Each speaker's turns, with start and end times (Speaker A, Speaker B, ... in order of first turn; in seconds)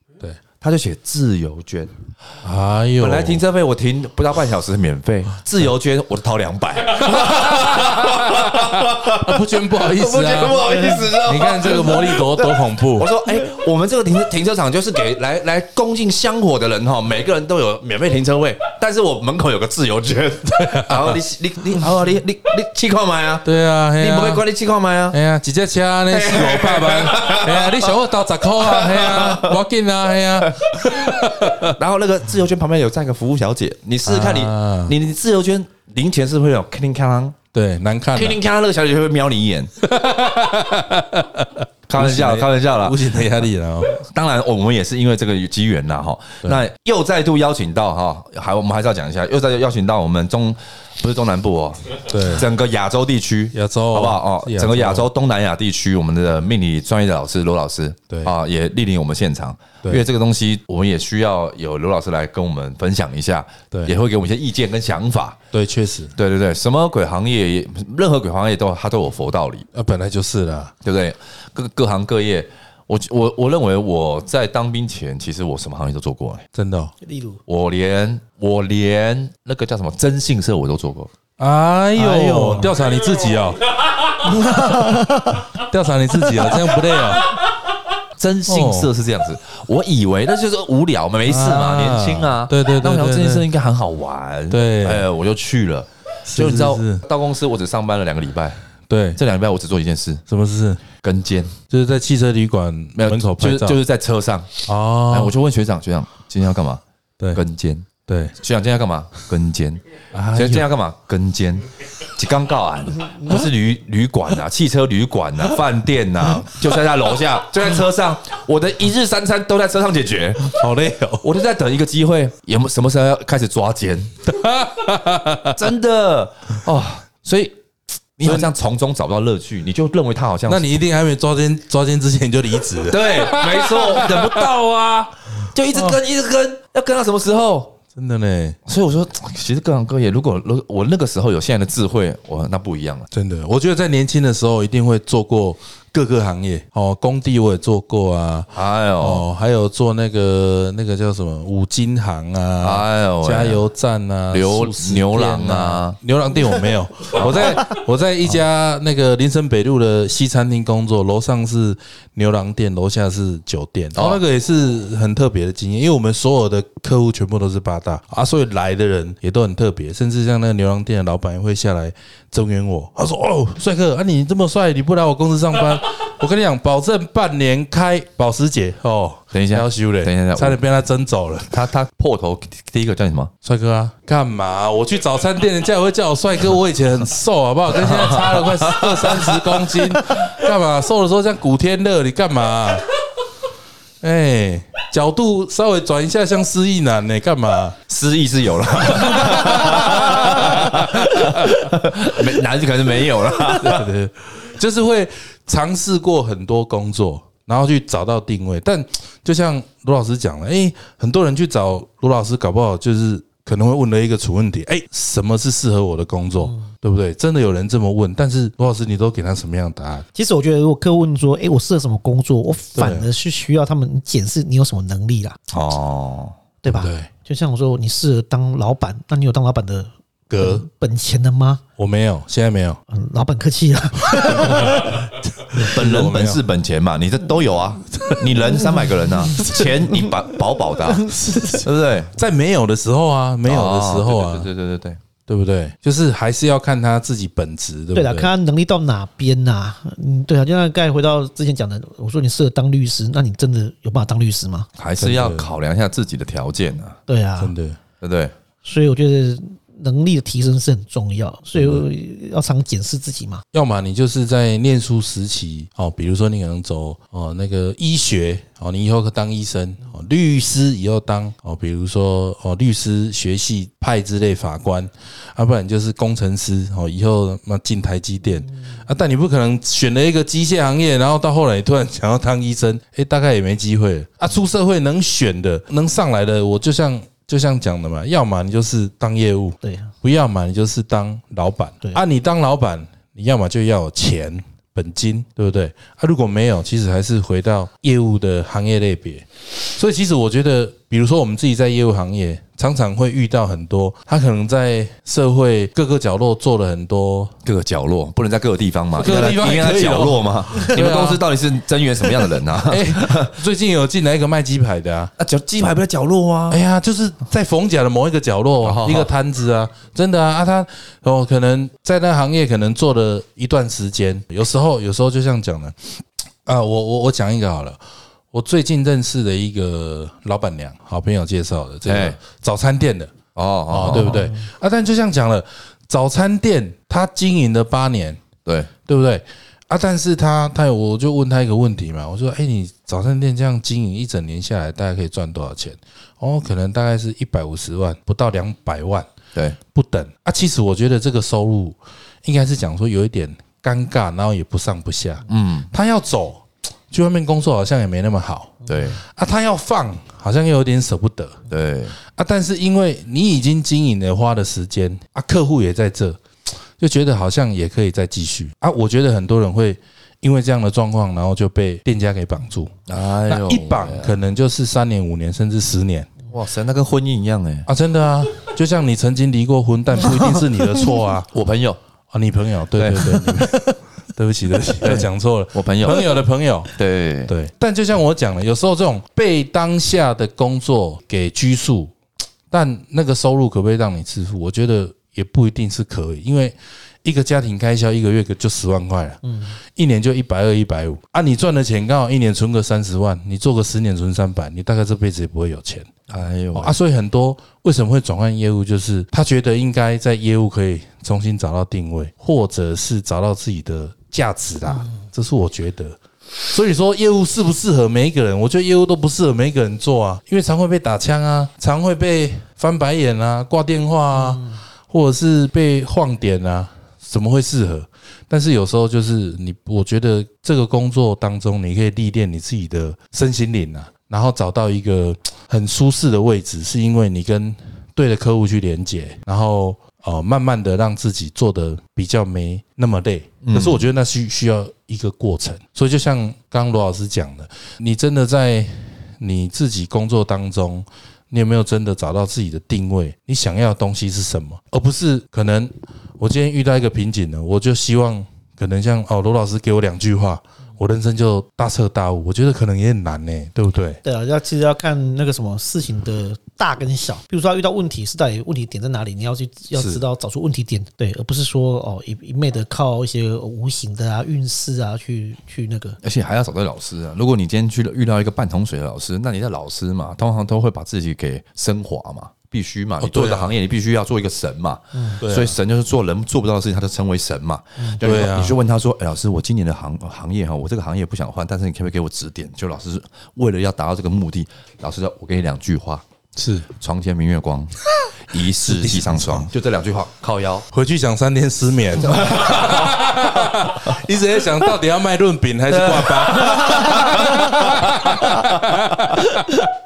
Speaker A: 0.6-1.9, 3.0-25.2, 26.1-28.0, 28.6-29.6, 30.4-37.4, 38.1-39.7, 41.9-43.2, 44.0-65.4, 66.2-69.7, 70.8-76.5, 77.5-81.1, 88.2-98.6, 99.2-100.2, 101.0-101.5, 103.0-106.8, 107.3-107.9, 108.4-109.8, 110.3-120.6, 121.2-124.1, 125.5-127.5, 128.2-130.8, 132.9-137.8, 138.7-143.1, 148.5-149.2, 152.6-153.6, 154.3-156.0, 157.1-157.8, 163.9-164.2, 179.3-180.6, 181.5-183.3, 187.8-189.8, 197.9-203.9, 225.5-226.4, 235.6-242.1, 243.5-245.0, 254.8-257.0, 258.0-258.3, 307.4-313.4, 315.2-316.6, 318.6-319.1, 331.9-332.2, 333.4-334.2, 338.4-338.7, 355.3-355.7, 358.7-359.0, 361.5-362.0, 372.9-374.1, 376.3-377.7, 381.3-381.8, 382.8-383.4, 384.8-386.1, 386.8-387.3, 406.1-406.8, 443.4-443.8, 476.0-496.0, 496.8-500.7, 502.0-503.8, 505.7-509.2
Speaker B: 2.4-3.4, 7.1-13.1, 20.5-21.2, 23.4-24.4, 25.1-31.8, 34.1-35.0, 37.5-38.4, 39.8-44.0, 52.1-52.5, 53.5-55.1, 65.5-66.1, 69.7-70.7, 76.5-76.9, 81.4-83.6, 84.2-87.3, 88.5-88.9, 91.2-93.5, 94.5-95.1, 96.3-97.0, 98.9-99.2, 100.3-100.9, 101.7-103.8, 104.7-105.4, 108.1-108.4, 110.1-110.7, 120.4-121.2, 124.3-125.7, 128.2-128.5, 130.5-134.5, 135.7-136.0, 137.9-138.6, 143.1-181.7, 183.4-192.9, 194.0-197.8, 198.8-201.7, 203.5-220.1, 222.8-223.1, 226.7-227.1, 230.3-230.7, 231.8-232.8, 234.1-236.4, 238.0-238.3, 239.3-239.9, 241.0-244.5, 245.3-248.3, 255.0-255.5, 257.4-257.8, 261.6-261.8, 263.5-307.3, 309.0-311.2, 312.6-315.1, 316.5-327.8, 328.3-333.2, 333.7-338.2, 338.9-349.1, 349.7-361.4, 362.0-366.2, 366.8-376.1, 377.7-381.3, 382.1-386.7, 387.3-391.9, 392.5-416.0, 416.5-464.0, 469.8-470.0, 483.0-483.6, 485.2-485.6, 488.0-488.6, 496.4-496.7, 498.6-499.5, 500.7-509.6
Speaker C: 10.5-11.1, 77.0-77.4, 82.0-82.8, 84.2-85.5, 216.4-216.7, 220.2-225.4, 226.6-231.6, 232.9-235.1, 247.9-254.7, 257.1-257.5, 258.6-263.4, 289.6-289.9, 334.0-334.4, 399.2-399.6, 424.2-424.6, 464.0-476.0, 484.9-485.2, 506.9-507.3